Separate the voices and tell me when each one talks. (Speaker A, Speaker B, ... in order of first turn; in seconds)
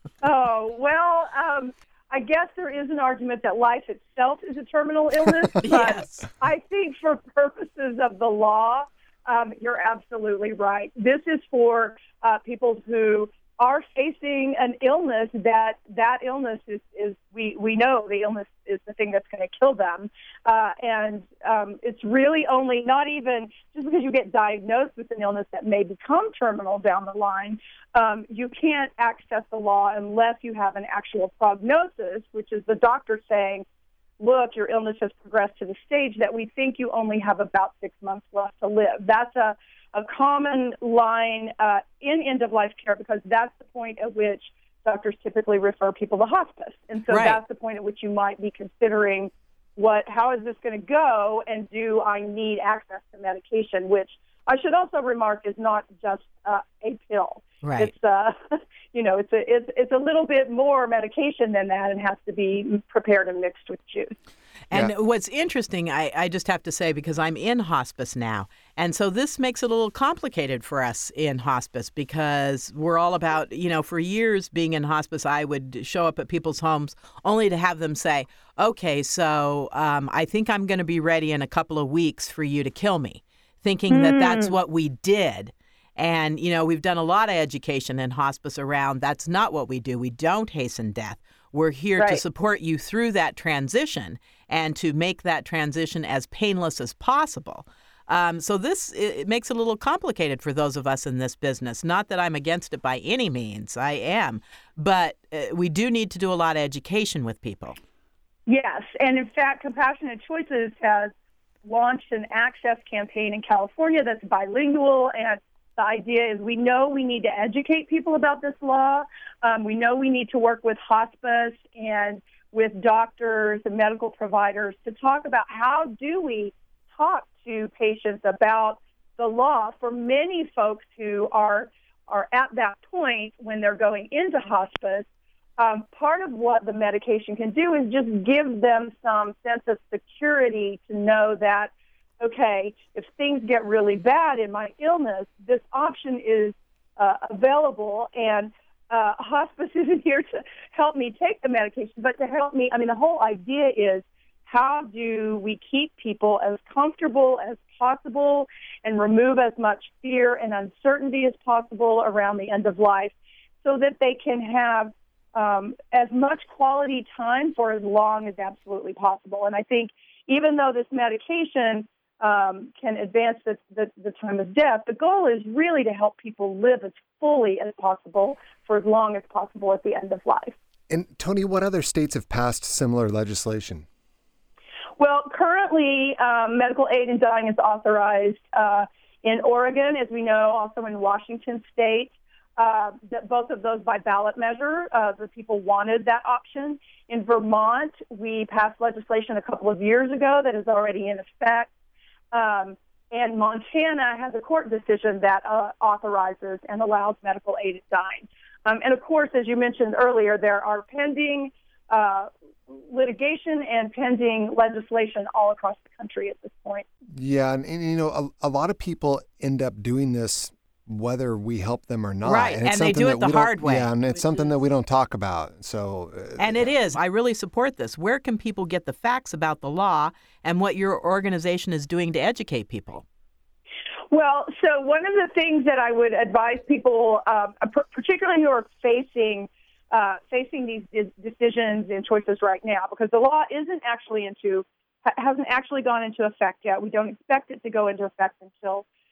Speaker A: 0.2-33.6, 34.2-64.2, 83.9-84.5, 108.5-111.1, 111.6-135.1, 135.6-163.1, 163.6-180.6, 185.0-201.7, 202.3-216.8, 234.1-248.9
Speaker B: 5.6-6.3, 47.1-47.4, 57.6-57.9, 64.7-107.8, 222.2-224.4, 226.4-233.0
Speaker C: 180.9-183.9, 217.2-226.7